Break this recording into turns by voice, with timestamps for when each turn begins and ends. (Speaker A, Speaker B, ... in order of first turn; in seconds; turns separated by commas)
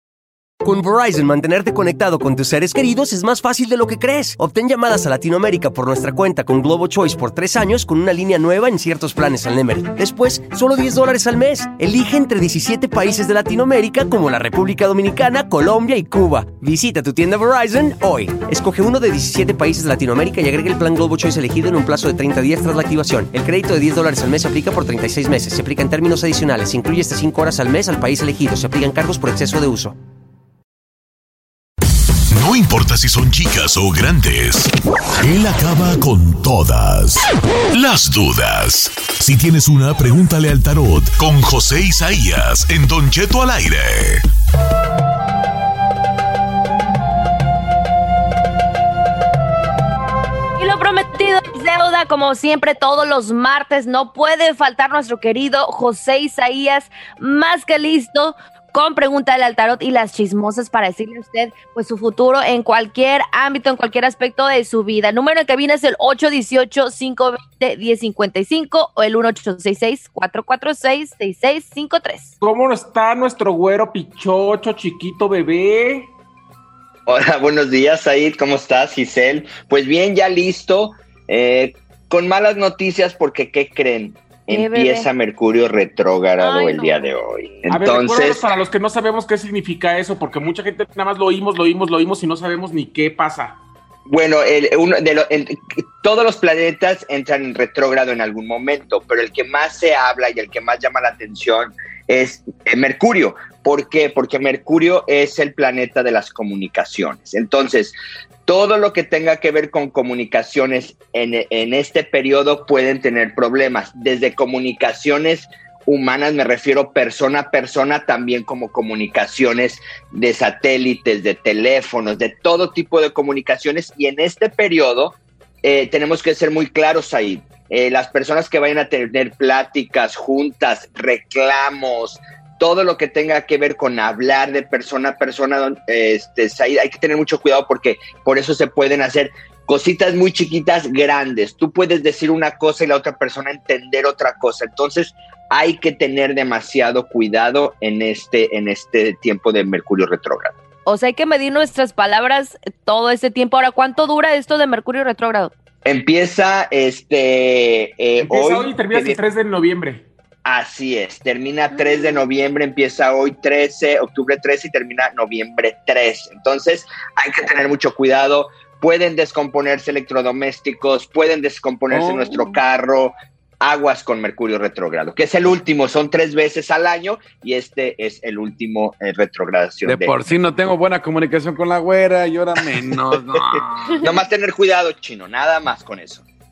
Speaker A: 0.6-30.0, Speaker B: 32.3-44.2, Speaker C: 50.6-72.3, Speaker D: 72.4-76.1, Speaker E: 77.1-88.4, Speaker C: 84.5-85.1, Speaker C: 86.4-86.9, Speaker D: 87.7-93.6, Speaker E: 94.1-108.0, Speaker E: 108.5-150.5, Speaker C: 150.9-155.5, Speaker E: 155.8-159.2, Speaker D: 158.2-160.1, Speaker E: 160.5-180.1, Speaker F: 171.9-172.6, Speaker F: 179.9-184.0, Speaker E: 183.3-186.2